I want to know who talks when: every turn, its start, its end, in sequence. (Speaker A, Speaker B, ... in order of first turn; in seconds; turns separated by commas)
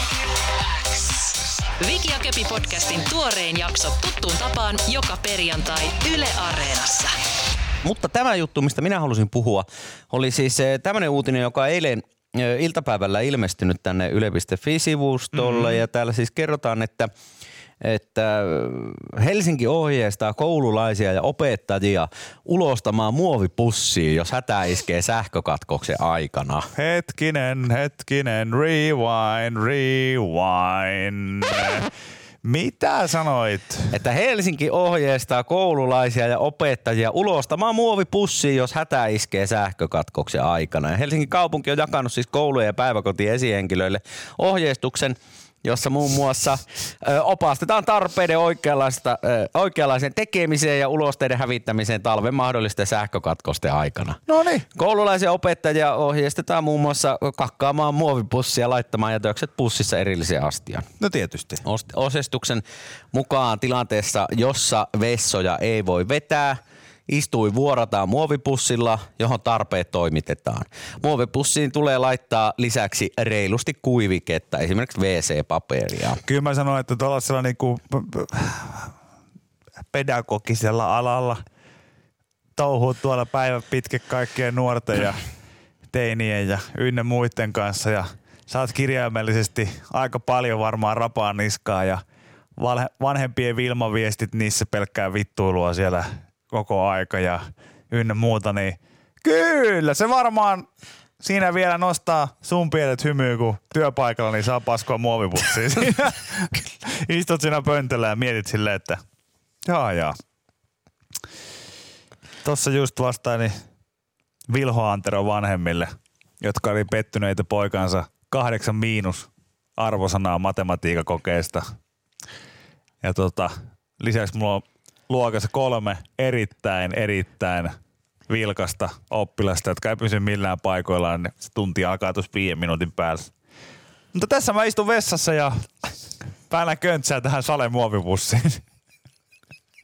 Speaker A: 1.8-7.2, Speaker B: 7.8-17.1, Speaker C: 15.3-15.8, Speaker B: 17.8-26.7, Speaker C: 26.8-31.9, Speaker C: 32.4-33.9, Speaker B: 33.9-54.2, Speaker C: 54.3-54.6, Speaker B: 54.7-60.9, Speaker C: 61.0-61.6, Speaker B: 61.6-76.2, Speaker C: 76.2-78.9, Speaker C: 79.9-81.4, Speaker C: 82.5-85.2, Speaker C: 85.9-92.0, Speaker C: 92.6-100.7, Speaker C: 101.2-109.0, Speaker C: 109.6-110.1, Speaker C: 112.4-113.5, Speaker C: 114.5-121.6, Speaker C: 123.0-127.7, Speaker C: 128.3-133.3, Speaker C: 134.1-135.7, Speaker C: 136.5-138.6